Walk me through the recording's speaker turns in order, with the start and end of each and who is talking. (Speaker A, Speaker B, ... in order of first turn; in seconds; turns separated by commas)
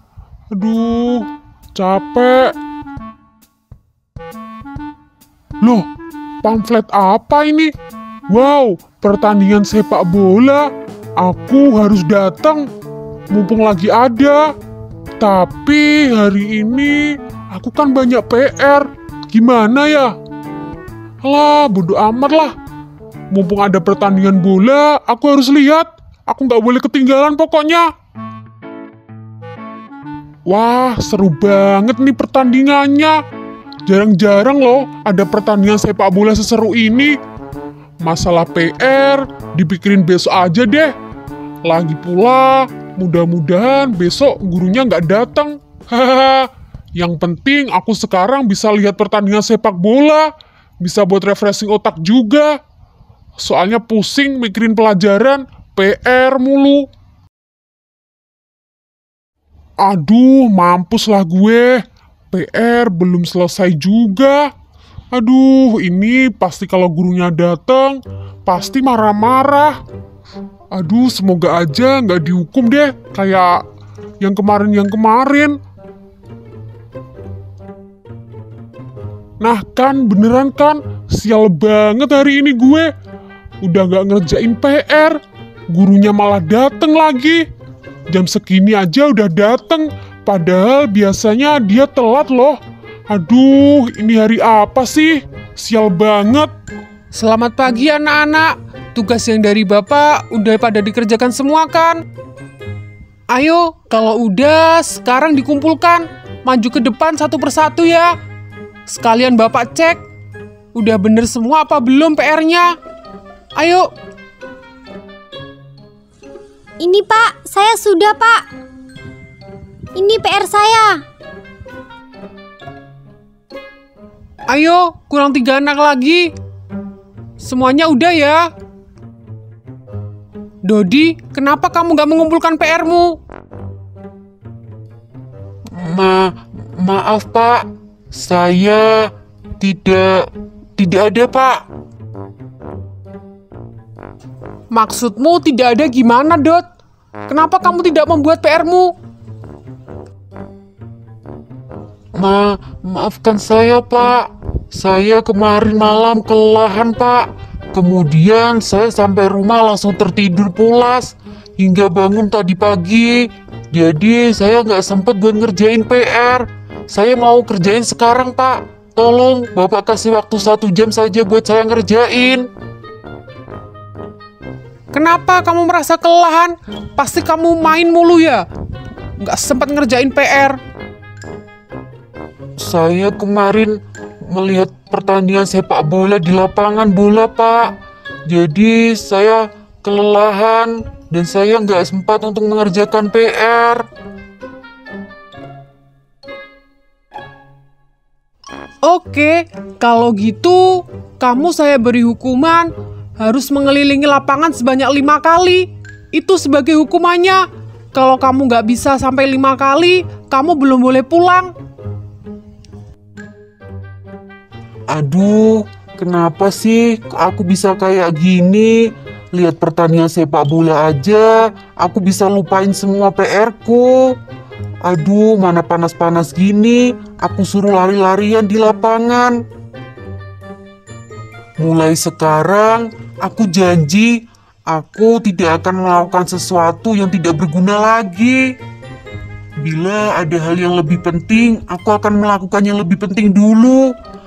Speaker A: 0.5-2.5, Speaker A: 5.6-5.9, Speaker A: 6.4-7.7, Speaker A: 8.3-12.7, Speaker A: 13.3-14.5, Speaker A: 15.2-20.1, Speaker A: 21.2-22.5, Speaker A: 23.3-27.9, Speaker A: 30.4-33.2, Speaker A: 33.9-37.1, Speaker A: 38.0-40.9, Speaker A: 41.6-52.6, Speaker A: 53.4-56.9, Speaker A: 59.8-64.5, Speaker A: 65.1-69.8, Speaker A: 70.7-73.6, Speaker A: 74.2-75.6, Speaker A: 79.4-82.9, Speaker A: 83.6-87.4, Speaker A: 88.1-92.6, Speaker A: 93.1-96.5, Speaker B: 97.1-102.0, Speaker B: 103.3-108.1, Speaker B: 108.9-110.0, Speaker B: 110.7-112.8, Speaker B: 113.5-113.9, Speaker C: 116.8-118.4, Speaker C: 119.9-121.0, Speaker B: 124.5-126.3, Speaker B: 127.4-128.5, Speaker B: 130.6-133.2, Speaker D: 135.7-141.6, Speaker B: 144.7-146.7, Speaker B: 147.3-148.9, Speaker D: 152.2-172.5, Speaker B: 174.9-178.4, Speaker B: 179.2-180.6, Speaker D: 182.6-183.8, Speaker D: 184.3-187.7, Speaker D: 188.3-193.8, Speaker B: 198.8-211.5, Speaker D: 214.9-224.2, Speaker D: 224.8-229.3, Speaker D: 231.6-238.5, Speaker D: 239.6-243.9